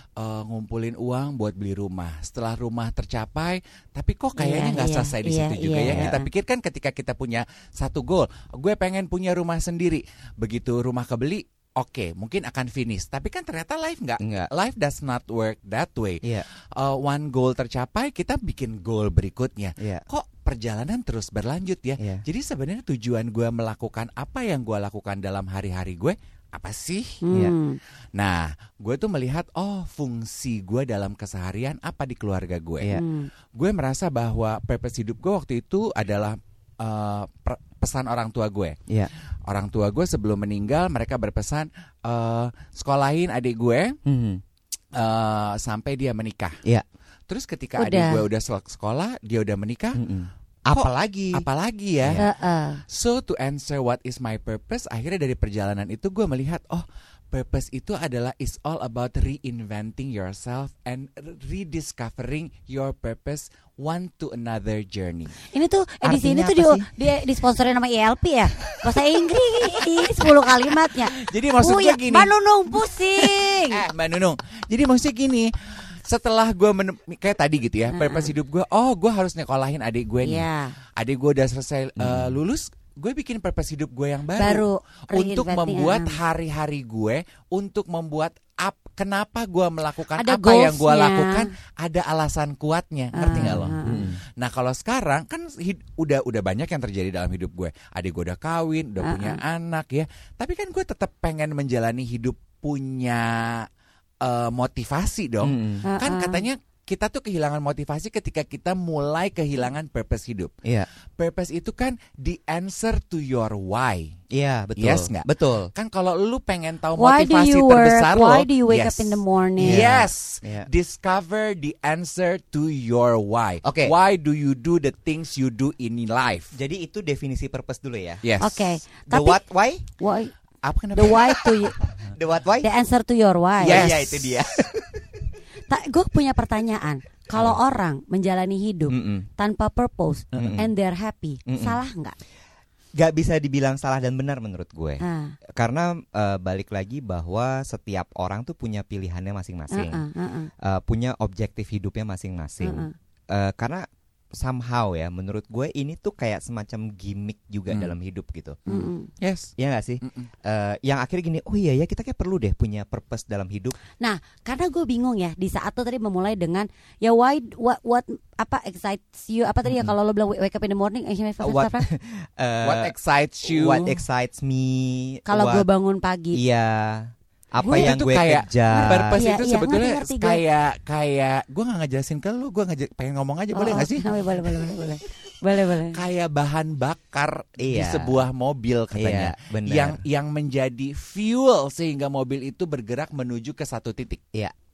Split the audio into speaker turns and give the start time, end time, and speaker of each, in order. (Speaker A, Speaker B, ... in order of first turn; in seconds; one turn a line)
Speaker A: 0.2-27.2
Speaker B: 4.4-6.3
Speaker C: 5.8-6.1
Speaker C: 14.2-14.5
Speaker B: 27.2-27.8
Speaker A: 28.1-33.0
Speaker B: 32.9-33.3
Speaker A: 33.5-38.8
Speaker A: 39.5-44.0
Speaker C: 44.0-44.4
Speaker A: 44.9-46.6
Speaker A: 47.3-50.0
Speaker B: 47.8-48.2
Speaker C: 50.0-51.4
Speaker A: 50.7-52.2
Speaker C: 52.0-52.2
Speaker B: 52.2-52.8
Speaker A: 52.9-65.3
Speaker B: 65.4-73.8
Speaker C: 66.0-66.9
Speaker A: 71.1-72.3
Speaker A: 72.9-80.5
Speaker B: 77.9-78.3
Speaker B: 80.2-80.7
Speaker A: 81.0-103.7
Speaker C: 82.0-82.4
Speaker B: 84.4-86.2
Speaker B: 90.2-91.5
Speaker B: 93.1-94.1
Speaker C: 93.2-94.2
Speaker B: 99.0-99.4
Speaker A: 104.2-110.5
Speaker C: 105.4-105.8
Speaker B: 105.8-106.4
Speaker A: 111.2-114.1
Speaker C: 114.3-115.7
Speaker A: 114.8-126.5
Speaker B: 117.0-119.8
Speaker C: 119.6-120.7
Speaker C: 123.6-123.9
Speaker C: 126.5-128.2
Speaker A: 128.2-128.7
Speaker B: 128.4-130.3
Speaker C: 129.1-129.8
Speaker A: 130.6-131.6
Speaker B: 130.9-131.8
Speaker C: 132.1-132.7
Speaker B: 132.6-133.9
Speaker A: 133.6-134.4
Speaker C: 133.6-135.2
Speaker B: 135.7-142.2
Speaker C: 138.9-139.3
Speaker C: 140.3-140.7
Speaker C: 141.5-141.8
Speaker C: 142.9-145.0
Speaker B: 145.0-145.3
Speaker C: 145.5-150.0
Speaker B: 149.7-150.5
Speaker C: 150.6-158.6
Speaker B: 152.6-152.9
Speaker B: 158.7-159.1
Speaker A: 158.7-160.3
Speaker C: 159.6-163.8
Speaker B: 164.0-171.9
Speaker C: 171.4-172.9
Speaker A: 172.6-174.0
Speaker C: 173.4-175.6
Speaker B: 175.3-176.4
Speaker C: 176.3-179.2
Speaker B: 177.6-177.9
Speaker A: 177.7-184.1
Speaker B: 178.7-180.4
Speaker B: 183.5-186.0
Speaker A: 185.9-194.2
Speaker C: 187.6-188.2
Speaker C: 188.9-190.0